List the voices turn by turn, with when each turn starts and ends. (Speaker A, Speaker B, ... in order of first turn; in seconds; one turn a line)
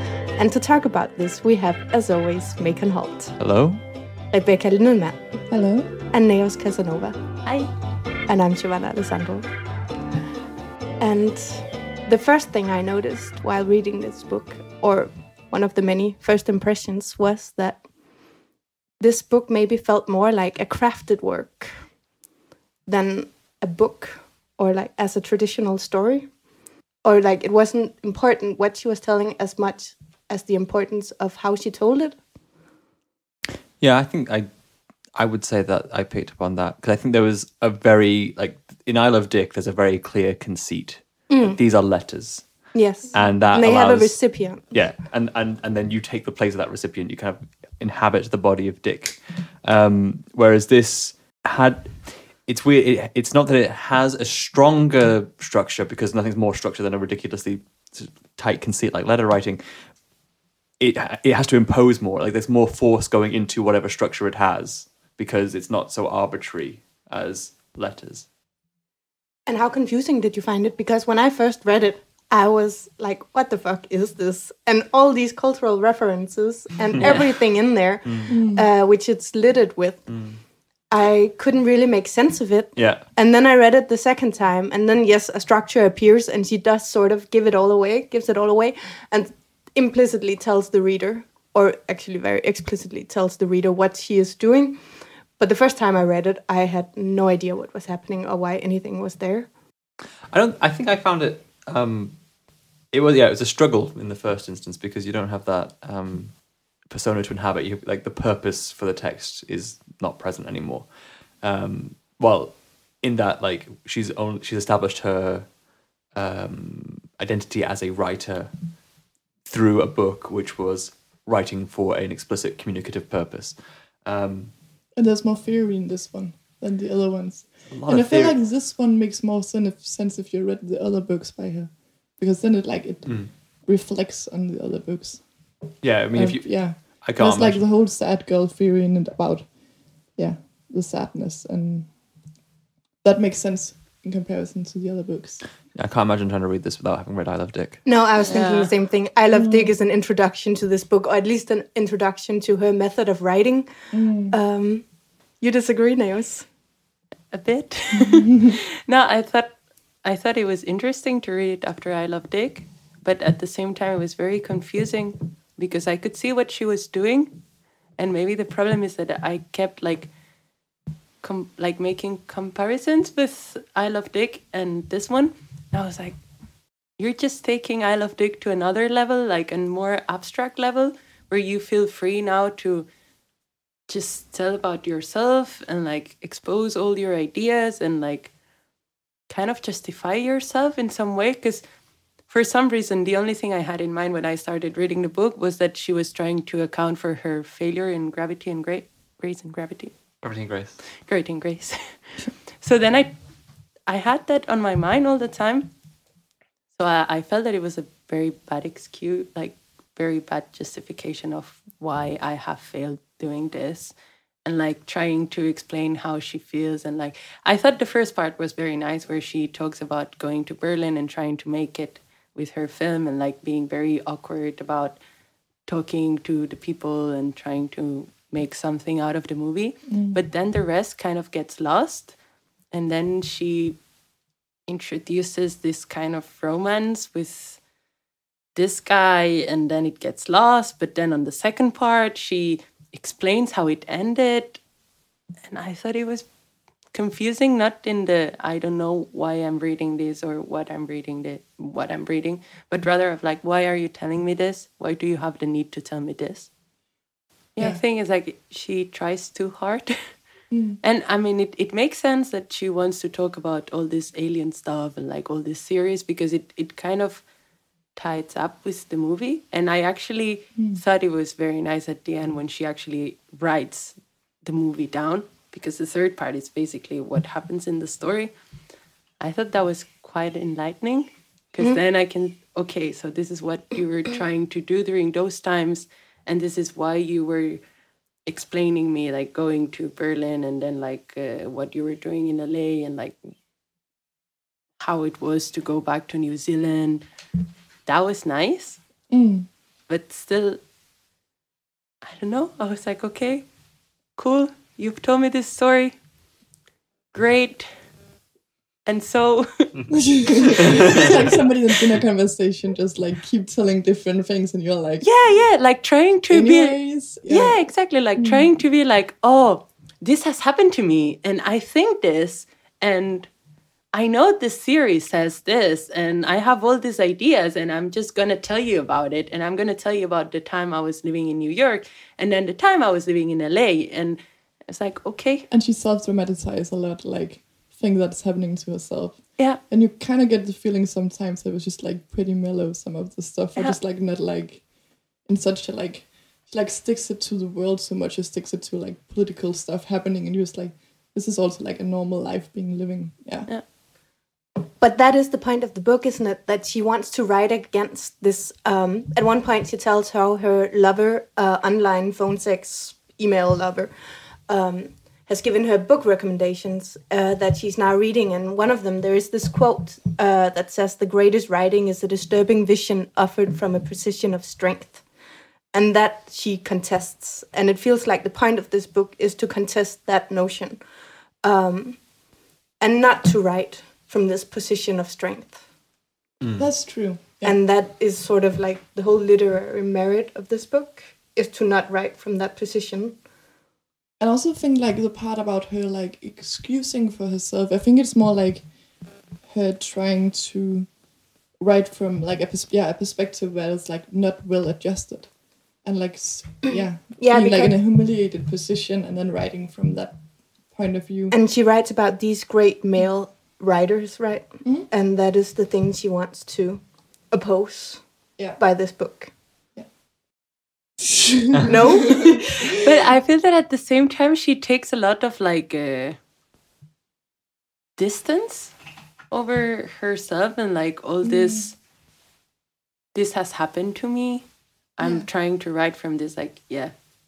Speaker A: 0.4-3.4
Speaker B: 3.4-3.8
Speaker A: 4.3-5.5
Speaker C: 5.5-5.9
Speaker A: 6.0-7.2
Speaker D: 7.5-7.7
Speaker A: 8.3-9.5
Speaker A: 11.0-17.8
Speaker A: 19.0-21.8
Speaker A: 22.9-26.3
Speaker A: 27.0-32.2
Speaker B: 33.8-34.5
Speaker B: 35.1-59.6
Speaker A: 41.3-41.6
Speaker A: 42.7-44.7
Speaker B: 60.8-68.3
Speaker A: 69.5-80.2
Speaker B: 76.9-77.4
Speaker B: 78.0-78.3
Speaker C: 78.3-78.7
Speaker B: 80.1-80.4
Speaker A: 80.9-94.8
Speaker B: 82.8-83.0
Speaker A: 95.4-99.5
Speaker B: 100.3-102.2
Speaker B: 102.9-115.5
Speaker B: 116.1-118.5
Speaker B: 119.5-124.5
Speaker C: 125.0-135.3
Speaker B: 127.7-128.4
Speaker B: 133.1-133.3
Speaker B: 135.8-137.7
Speaker C: 136.2-139.5
Speaker C: 140.1-141.9
Speaker C: 143.0-145.4
Speaker B: 145.7-147.9
Speaker A: 147.8-153.7
Speaker D: 148.2-148.7
Speaker C: 149.3-149.7
Speaker C: 153.9-154.3
Speaker A: 154.3-154.8
Speaker A: 155.4-156.5
Speaker D: 157.3-167.4
Speaker C: 157.9-158.5
Speaker D: 168.0-170.1
Speaker D: 171.2-176.2
Speaker D: 177.0-182.9
Speaker D: 183.9-188.3
Speaker D: 189.3-191.6
Speaker D: 192.3-199.9
Speaker B: 200.2-200.8
Speaker D: 201.1-201.9
Speaker D: 202.5-203.2
Speaker D: 203.9-205.7
Speaker D: 206.8-225.0
Speaker D: 225.7-232.2
Speaker C: 229.9-230.2
Speaker D: 232.7-233.8
Speaker D: 234.7-237.6
Speaker D: 238.6-244.6
Speaker D: 245.5-246.3
Speaker D: 246.9-256.5
Speaker D: 257.6-260.0
Speaker C: 260.5-260.8
Speaker D: 260.8-267.2
Speaker D: 268.0-278.3
Speaker D: 279.2-287.6
Speaker D: 288.3-293.2
Speaker D: 294.8-297.0
Speaker D: 297.9-298.8
Speaker C: 299.1-299.5
Speaker D: 299.9-300.6
Speaker D: 302.0-303.5
Speaker D: 304.2-306.0
Speaker D: 307.1-307.7
Speaker D: 308.9-309.7
Speaker C: 309.9-315.1
Speaker D: 310.4-311.1
Speaker B: 310.6-311.1
Speaker D: 315.0-323.3
Speaker C: 316.3-317.6
Speaker C: 318.2-318.5
Speaker D: 323.9-335.5
Speaker C: 335.5-344.7
Speaker C: 345.2-353.5
Speaker A: 354.8-363.9
Speaker A: 364.5-375.0
Speaker A: 375.7-380.8
Speaker A: 381.4-382.0
Speaker A: 382.8-385.6
Speaker B: 386.4-386.7
Speaker C: 386.6-387.6
Speaker A: 387.4-393.2
Speaker C: 394.2-398.7
Speaker C: 399.4-400.9
Speaker C: 401.6-410.2
Speaker A: 406.6-407.8
Speaker C: 410.7-411.3
Speaker A: 411.3-419.3
Speaker C: 421.0-421.7
Speaker B: 421.5-421.8
Speaker A: 421.6-422.8
Speaker D: 422.7-426.2
Speaker D: 428.0-428.7
Speaker D: 429.3-431.8
Speaker C: 431.2-431.7
Speaker D: 433.1-434.5
Speaker D: 435.0-436.9